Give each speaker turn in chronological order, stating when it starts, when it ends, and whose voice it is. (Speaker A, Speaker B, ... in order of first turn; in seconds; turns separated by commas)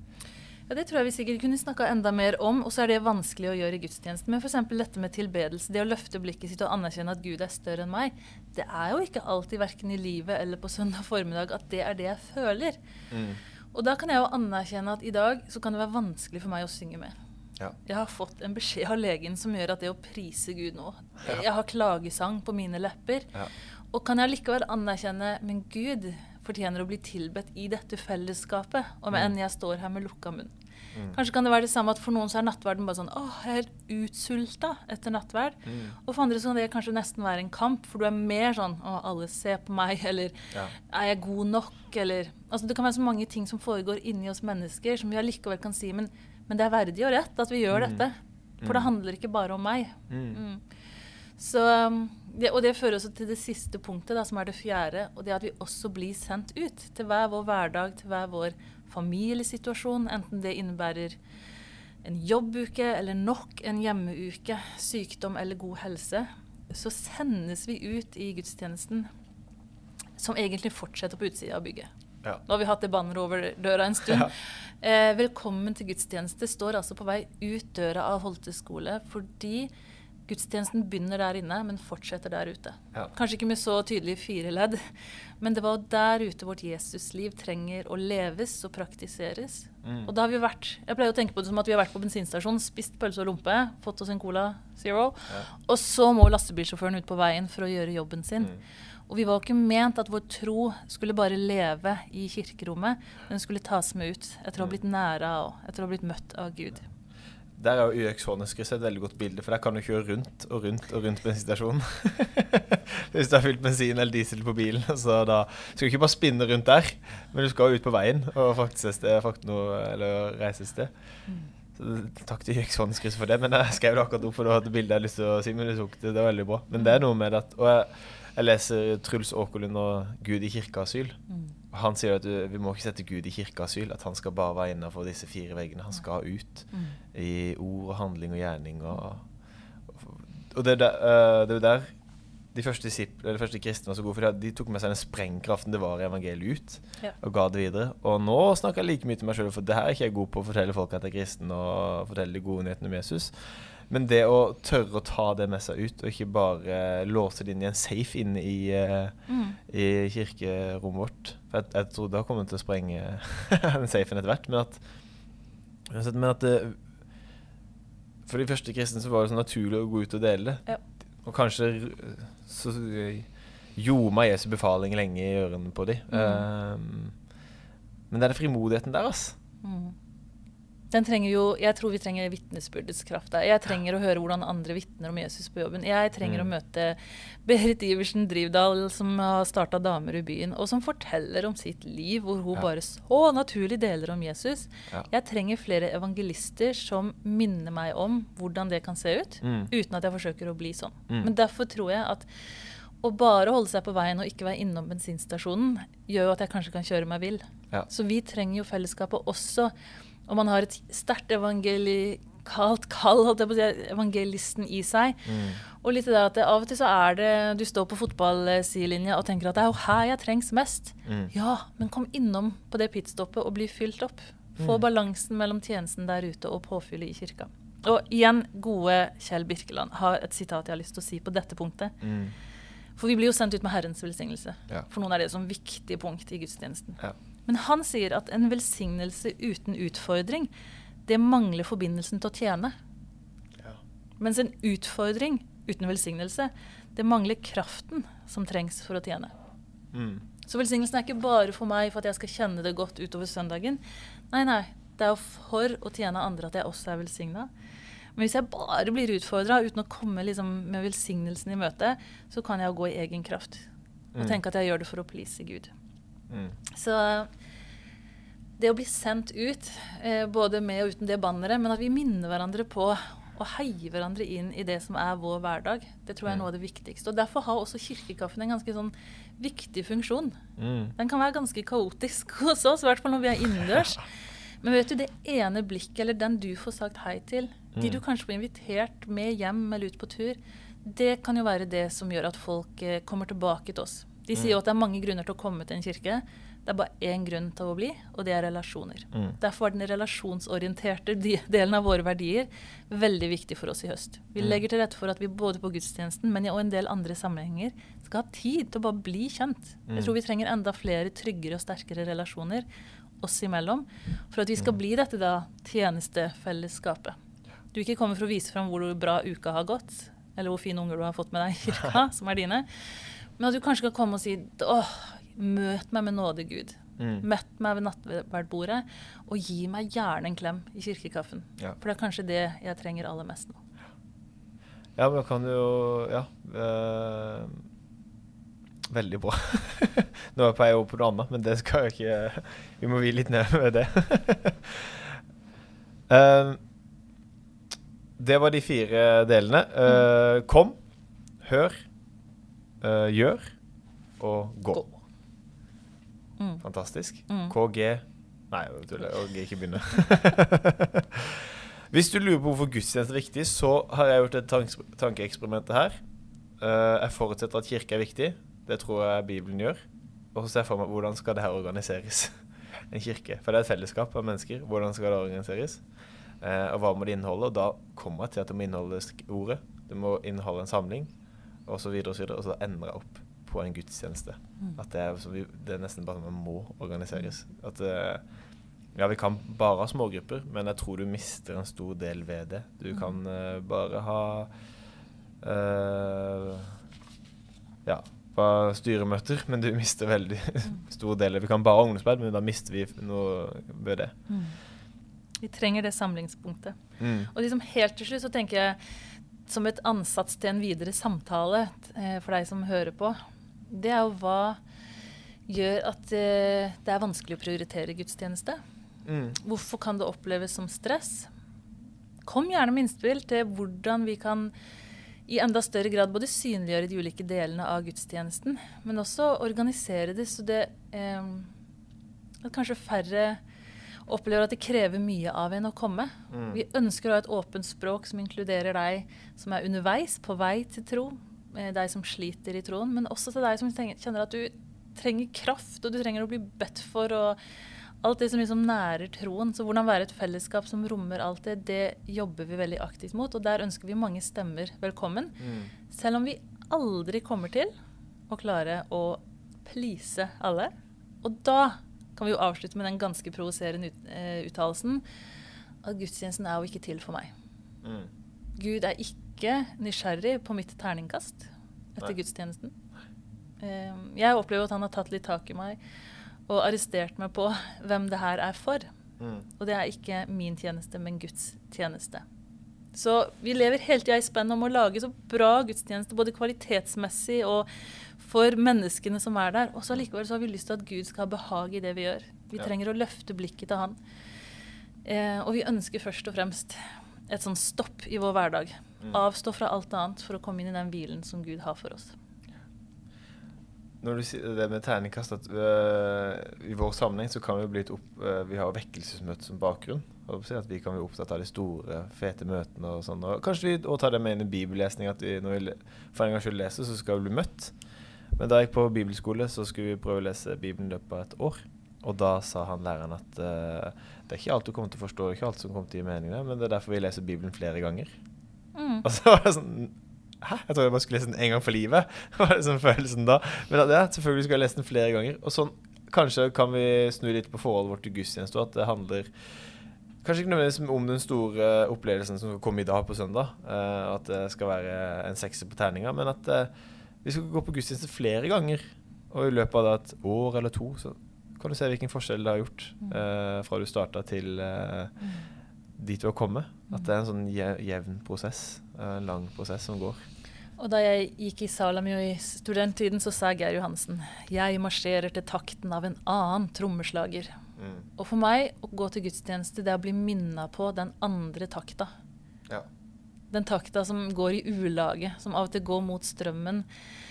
Speaker A: 0.7-12.8, Speaker B: 13.1-13.4, Speaker A: 13.7-17.1, Speaker A: 17.8-23.3, Speaker A: 23.9-30.5, Speaker A: 31.1-40.4, Speaker B: 35.6-35.9, Speaker A: 40.9-50.6, Speaker B: 47.7-48.0, Speaker B: 48.6-48.9, Speaker B: 50.1-50.4, Speaker A: 51.4-61.2, Speaker A: 62.0-69.1, Speaker A: 70.2-71.9, Speaker A: 72.4-79.7, Speaker B: 74.1-74.3, Speaker A: 80.3-84.8, Speaker A: 85.4-98.6, Speaker B: 89.8-90.1, Speaker A: 99.1-106.8, Speaker B: 107.5-120.9, Speaker B: 121.7-131.2, Speaker A: 131.3-131.5, Speaker B: 131.7-139.2, Speaker A: 136.7-137.0, Speaker B: 139.9-141.9, Speaker B: 142.5-159.1, Speaker A: 159.3-159.6, Speaker B: 159.7-164.8, Speaker B: 165.9-166.8, Speaker B: 168.2-170.7, Speaker B: 171.2-177.1, Speaker A: 176.1-176.4, Speaker B: 178.1-179.4, Speaker A: 179.6-179.9, Speaker A: 180.9-202.3, Speaker B: 186.2-186.5, Speaker B: 199.4-199.7, Speaker A: 203.0-209.7, Speaker A: 210.3-231.9, Speaker B: 215.2-215.6, Speaker B: 221.1-221.3, Speaker B: 224.6-224.8, Speaker B: 232.0-232.3, Speaker A: 233.0-240.5, Speaker A: 241.1-242.7, Speaker A: 244.2-249.3, Speaker B: 249.9-250.2, Speaker A: 250.4-257.5, Speaker A: 258.1-265.7, Speaker B: 266.3-266.6, Speaker A: 266.7-267.3, Speaker A: 268.6-280.4, Speaker B: 280.6-280.9, Speaker A: 280.9-284.1, Speaker A: 284.6-312.6, Speaker B: 287.7-288.0, Speaker B: 299.1-299.4, Speaker B: 309.9-310.1, Speaker A: 313.2-317.1, Speaker A: 317.7-322.7, Speaker A: 323.4-333.6, Speaker B: 327.0-327.2, Speaker B: 334.9-337.6, Speaker B: 338.9-345.2, Speaker B: 346.1-346.6, Speaker B: 348.2-350.8, Speaker B: 351.4-351.9, Speaker B: 352.8-353.6, Speaker B: 354.2-354.9, Speaker A: 356.4-356.6, Speaker B: 356.6-365.9, Speaker A: 357.3-357.5, Speaker B: 366.6-372.4, Speaker B: 372.9-375.8, Speaker B: 376.4-381.1, Speaker B: 381.6-388.2, Speaker B: 388.9-394.5, Speaker B: 395.4-396.7, Speaker B: 397.8-404.1, Speaker A: 404.3-404.6, Speaker A: 405.4-406.8, Speaker B: 407.0-407.3, Speaker A: 407.3-408.8, Speaker A: 409.5-413.2, Speaker A: 413.7-414.6, Speaker A: 415.5-418.6, Speaker B: 419.0-419.4, Speaker A: 419.4-421.3, Speaker A: 422.2-424.5, Speaker A: 425.3-431.5, Speaker A: 432.4-433.4, Speaker A: 434.1-447.4, Speaker B: 436.3-436.6, Speaker A: 448.0-455.4, Speaker B: 455.4-455.7, Speaker A: 455.9-457.7, Speaker A: 458.3-460.7, Speaker A: 461.2-465.0, Speaker A: 465.8-467.3, Speaker B: 467.8-468.1, Speaker A: 468.6-472.7, Speaker A: 473.6-475.8, Speaker A: 476.5-478.9, Speaker B: 479.2-479.4, Speaker A: 479.6-482.2, Speaker A: 482.9-494.0, Speaker A: 495.0-502.1, Speaker B: 504.0-517.7, Speaker B: 518.3-528.1, Speaker A: 528.7-529.0, Speaker B: 529.0-539.3, Speaker B: 540.2-546.7, Speaker B: 547.2-555.1, Speaker B: 556.0-560.2, Speaker A: 560.8-567.5, Speaker B: 567.8-568.0, Speaker A: 568.2-572.1, Speaker A: 573.5-576.9